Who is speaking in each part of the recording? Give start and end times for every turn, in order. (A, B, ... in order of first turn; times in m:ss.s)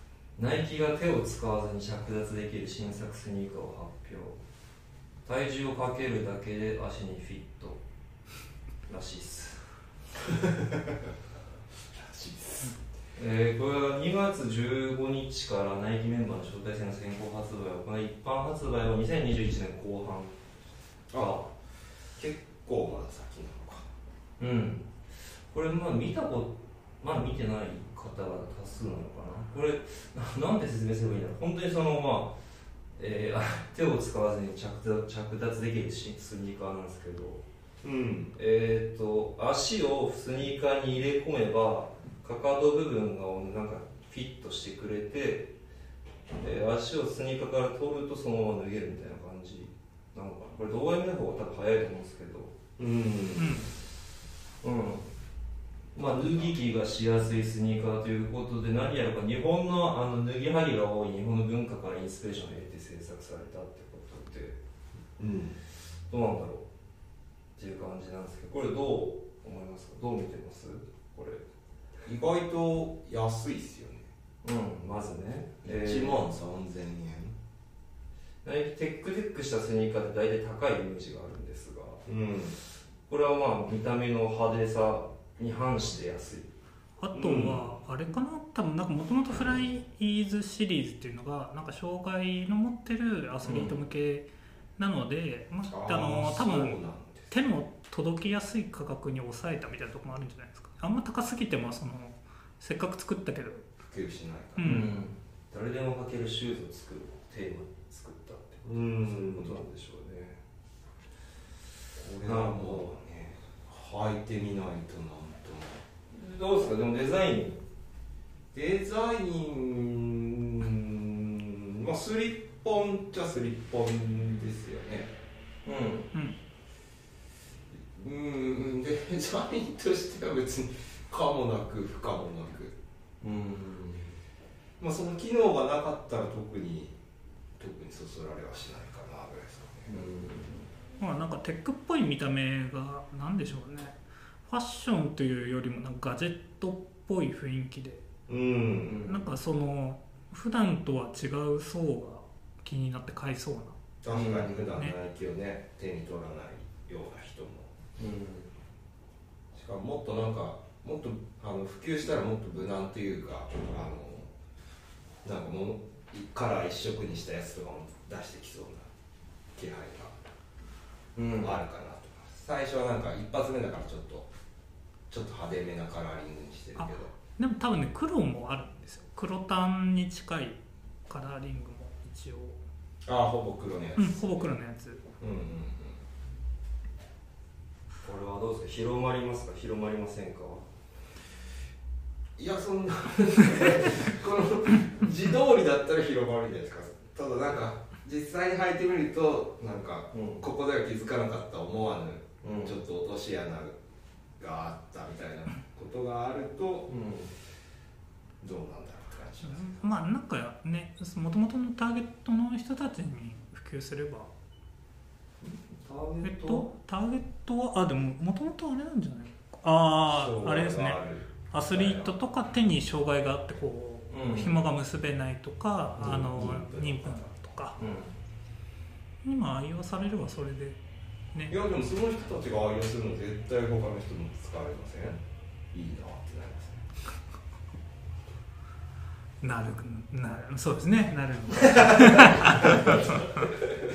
0:00.4-0:04.4 A
0:05.2-0:07.8 A
0:08.9-0:09.6 A
0:10.3-0:11.0 B
0:11.9-0:12.8 B
0:13.2-0:20.4 A
0:21.1-0:21.5 B
0:21.1-0:21.5 A
0:22.2-0:23.9 B
0:24.4-0:24.9 A
0:25.5-0:32.4 A
0:33.0-0:37.4 A
0:37.8-0:38.3 B
0:38.4-0:45.5 A
0:46.4-0:52.7 A
0:52.8-0:53.6 B
0:53.4-0:53.7 C
0:54.6-0:55.1 A
0:56.0-1:04.6 A
1:05.2-1:05.6 B
1:06.1-1:06.7 A
1:07.6-1:11.4 A
1:12.0-1:14.1 B
1:14.4-1:16.2 A
1:15.6-1:17.4 B
1:18.4-1:22.0 A
1:22.1-1:22.6 B
1:23.1-1:26.5 A
1:27.0-1:36.8 C
1:27.1-1:27.6 B
1:33.4-1:33.8 A
1:35.7-1:37.3 B
1:37.3-1:43.7 C
1:43.8-1:44.8 B
1:44.6-1:45.0 C
1:44.6-1:50.4 A
1:48.6-1:49.6 B
1:52.0-1:55.8 B
1:52.2-1:52.9 A
1:56.1-1:57.6 A
1:58.5-2:05.1 B
2:05.6-2:06.1 A
2:07.9-2:12.8 B
2:13.2-2:14.1 A
2:14.8-2:17.0 B
2:17.6-2:19.9 B
2:19.9-2:20.7 A
2:21.0-2:24.0 C
2:24.5-2:28.0 C
2:28.3-2:29.0 B
2:28.9-2:29.2 A
2:29.1-2:33.8 C
2:34.0-2:37.7 B
2:34.1-2:34.7 A
2:38.0-2:38.5 A
2:39.5-2:44.3 B
2:45.2-2:48.9 B
2:49.5-2:50.2 B
2:51.2-2:51.6 A
2:51.4-2:54.3 B
2:55.1-2:57.1 B
2:57.4-3:02.6 C
3:03.1-3:04.5 B
3:04.0-3:05.0 C
3:05.2-3:06.0 B
3:08.0-3:10.6 A
3:12.4-3:23.8 B
3:20.1-3:20.4 A
3:22.4-3:22.8 A
3:24.4-3:26.9 B
3:26.9-3:27.3 A
3:28.4-3:29.8 B
3:29.4-3:34.3 C
3:35.8-3:36.7 A
3:36.2-3:47.8 C
3:40.1-3:42.1 B
3:44.1-3:44.6 A
3:46.0-3:46.6 A
3:46.0-3:47.2 B
3:47.8-3:48.1 A
3:49.2-3:50.8 C
3:51.5-3:55.2 B
3:55.7-3:56.8 B
3:59.4-4:03.2 C
4:01.8-4:03.2 B
4:02.7-4:03.0 A